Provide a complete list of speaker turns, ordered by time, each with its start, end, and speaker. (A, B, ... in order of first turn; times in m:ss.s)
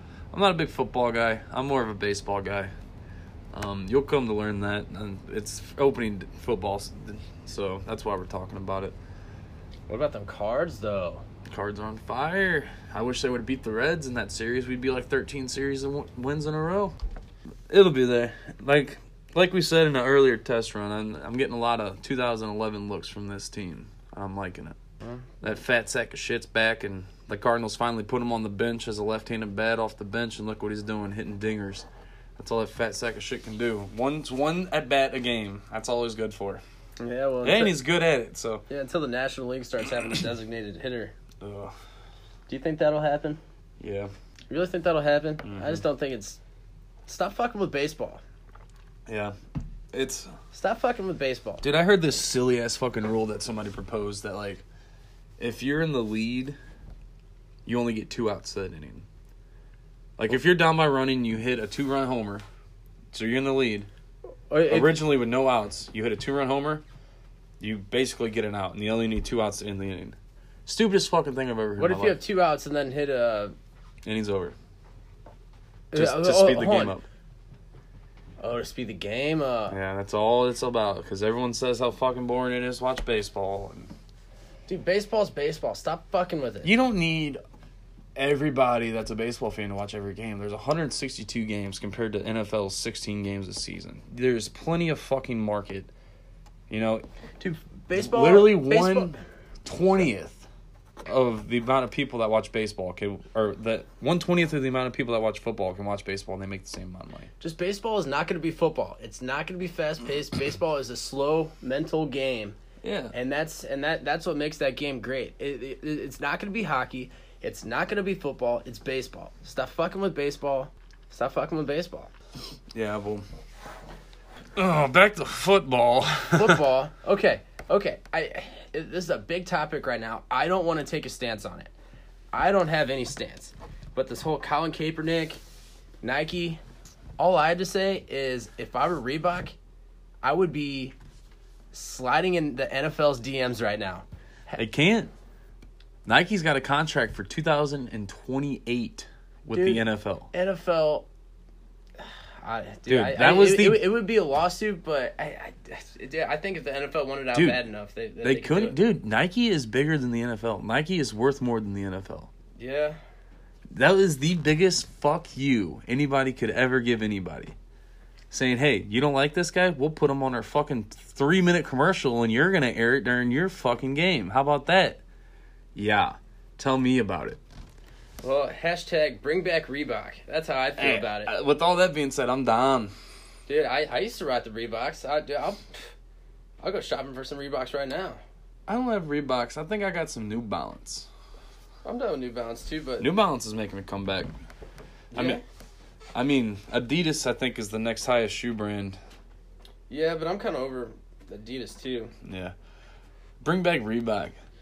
0:00.3-0:02.7 A
0:03.5-0:09.0 A
0:09.9-0:11.2 B
0:11.4-0:17.0 A
0:17.7-0:24.8 A
0:25.0-0:25.4 B
0:25.4-0:31.8 A
0:32.4-0:36.6 A
0:37.0-0:37.8 B
0:37.4-0:38.6 A
0:38.7-0:41.1 B
0:41.4-0:41.7 A
0:42.5-0:43.4 B
0:43.8-0:44.1 A
0:44.5-0:46.4 B
0:45.4-0:45.8 A
0:47.1-0:48.2 B
0:49.1-0:49.3 A
0:49.9-0:50.3 A
0:50.5-0:51.6 B
0:51.6-0:54.6 A
0:55.4-0:56.6 A
0:57.6-0:59.0 A
1:00.2-1:02.4 A
1:03.1-1:03.9 A
1:04.5-1:05.0 B
1:04.7-1:06.8 A
1:07.6-1:12.2 A
1:11.8-1:13.5 B
1:14.0-1:14.5 A
1:15.9-1:16.9 B
1:15.9-1:17.0 A
1:18.4-1:19.8 B
1:19.7-1:23.9 A
1:24.7-1:26.7 B
1:26.6-1:27.4 A
1:28.2-1:35.9 A
1:36.7-1:37.0 A
1:37.4-1:39.2 B
1:37.9-1:40.5 A
1:41.0-1:47.3 A
1:47.4-1:52.6 B
1:52.8-1:53.1 A
1:53.1-2:02.1 B
2:02.7-2:03.2 A
2:04.6-2:06.6 A
2:06.3-2:11.7 B
2:12.3-2:15.4 B
2:16.0-2:16.6 B
2:17.2-2:19.5 B
2:20.2-2:20.9 B
2:21.7-2:24.6 B
2:24.6-2:25.1 A
2:26.0-2:30.3 A
2:29.5-2:31.1 B
2:32.0-2:38.8 B
2:32.9-2:33.9 A
2:37.3-2:37.6 A
2:38.2-2:42.3 A
2:42.6-2:43.0 B
2:43.7-2:47.6 A
2:48.3-2:55.0 A
2:55.7-2:57.4 A
2:58.2-3:01.3 B
3:00.8-3:02.9 A
3:03.5-3:05.9 B
3:06.6-3:08.2 B
3:08.7-3:11.1 A
3:11.8-3:13.1 B
3:13.0-3:14.3 A
3:15.1-3:15.4 B
3:15.1-3:15.4 A
3:16.1-3:19.0 A
3:19.9-3:22.1 B
3:22.2-3:22.5 A
3:23.4-3:24.4 A